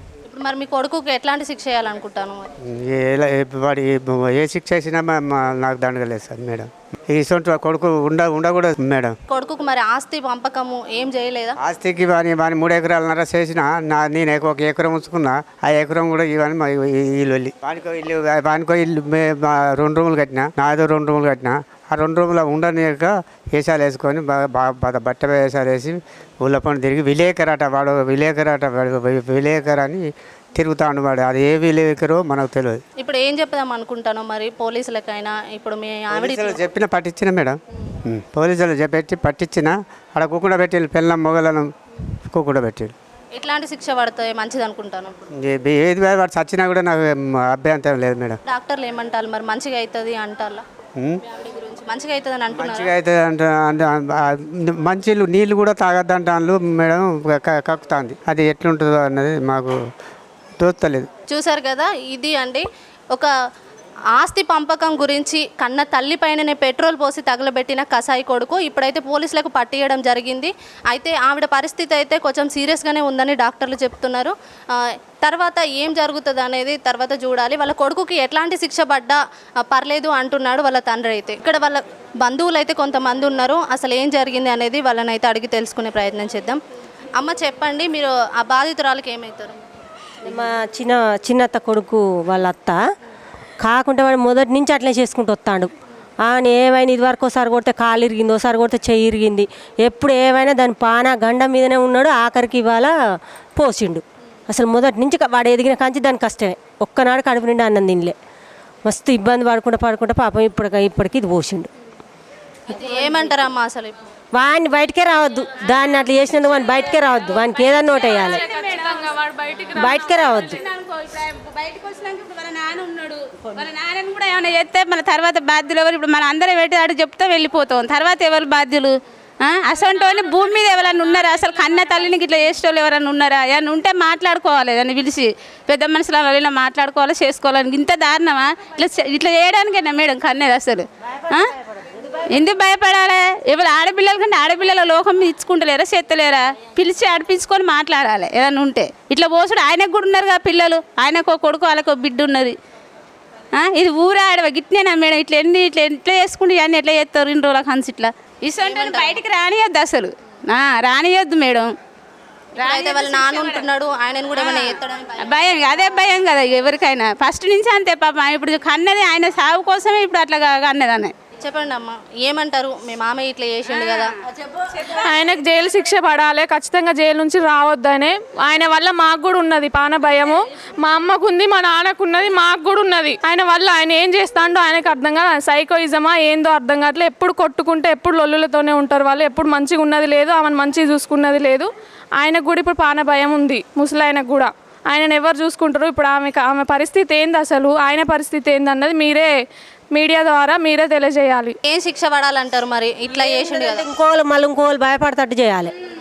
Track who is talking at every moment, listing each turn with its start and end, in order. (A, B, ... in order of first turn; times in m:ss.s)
0:00.2-0:02.5 A
0:02.6-0:09.2 B
0:09.3-0:11.6 A
0:11.6-0:32.8 B
0:33.0-0:36.6 A
0:36.1-0:41.7 B
0:42.2-0:42.9 B
0:43.4-0:45.1 A
0:45.4-0:48.4 B
0:48.5-0:50.6 A
0:51.3-0:52.9 A
0:52.5-0:59.8 B
1:00.6-1:01.1 B
1:01.3-1:03.3 A
1:04.2-1:26.6 A
1:27.2-1:29.6 A
1:30.2-1:32.8 C
1:33.6-1:35.7 C
1:36.3-1:42.9 C
1:43.6-1:48.2 C
1:48.8-1:51.7 C
1:52.7-1:54.0 A
1:54.3-1:58.4 C
1:57.9-1:59.2 D
1:58.4-2:00.2 E
1:59.8-2:00.6 C
2:00.1-2:21.5 D
2:22.2-2:32.6 D
2:33.5-2:41.7 D
2:38.6-2:39.2 A
2:42.6-2:45.3 A
2:42.6-2:43.6 D
2:44.4-2:51.1 D
2:51.4-2:54.2 A
2:54.9-3:19.3 E
3:19.9-3:21.6 E
3:21.6-3:23.9 A
3:23.2-3:25.7 C